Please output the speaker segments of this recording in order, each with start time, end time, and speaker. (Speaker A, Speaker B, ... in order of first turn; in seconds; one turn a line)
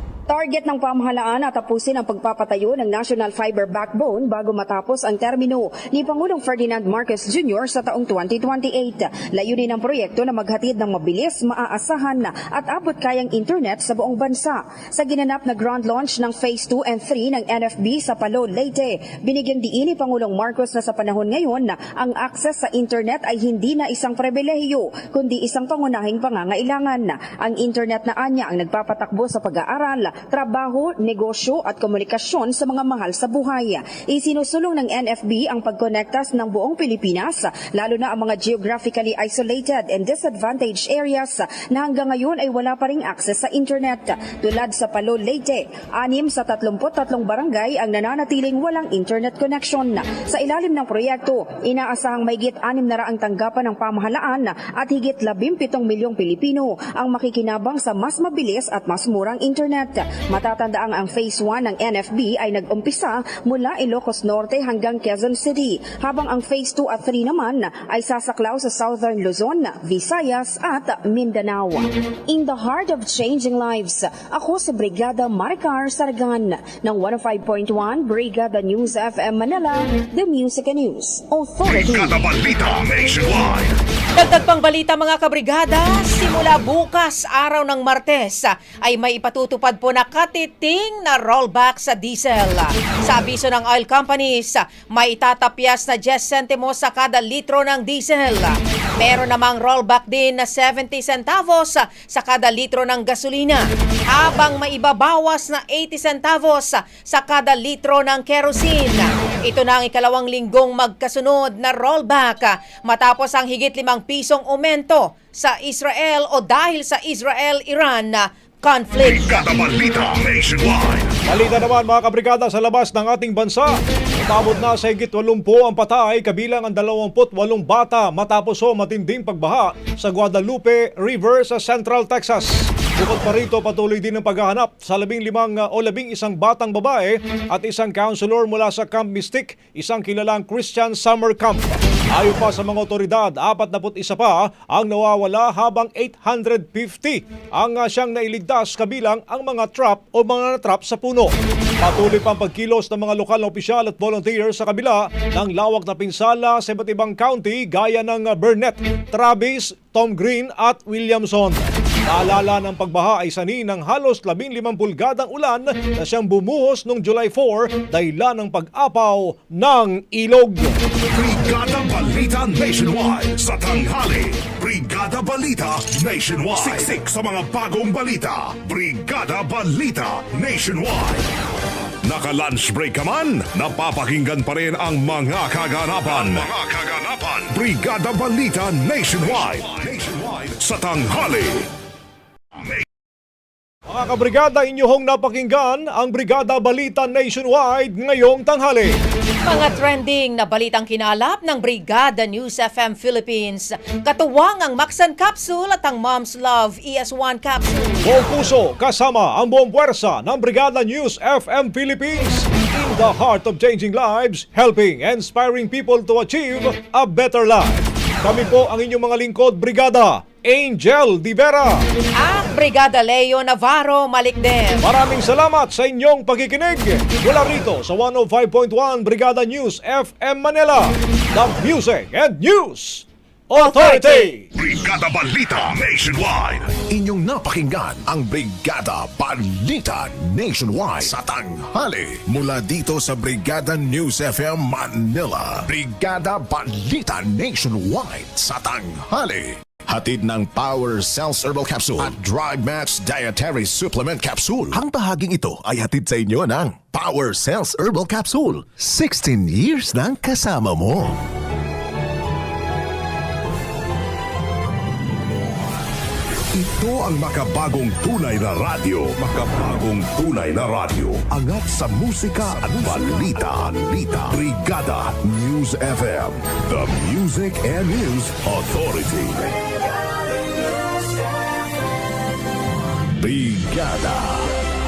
Speaker A: 0.3-82.2
Speaker B: 81.7-83.7
Speaker C: 84.2-119.5
Speaker B: 119.0-121.1
Speaker D: 121.3-170.7
Speaker B: 171.1-181.2
Speaker B: 182.1-191.6
Speaker D: 193.9-198.9
Speaker C: 199.4-208.1
Speaker D: 208.0-221.8
Speaker C: 222.2-224.8
Speaker D: 224.8-234.4
Speaker C: 233.6-234.3
Speaker B: 234.5-236.7
Speaker E: 236.9-261.2
Speaker B: 266.5-279.4
Speaker E: 275.4-275.8
Speaker E: 283.1-284.4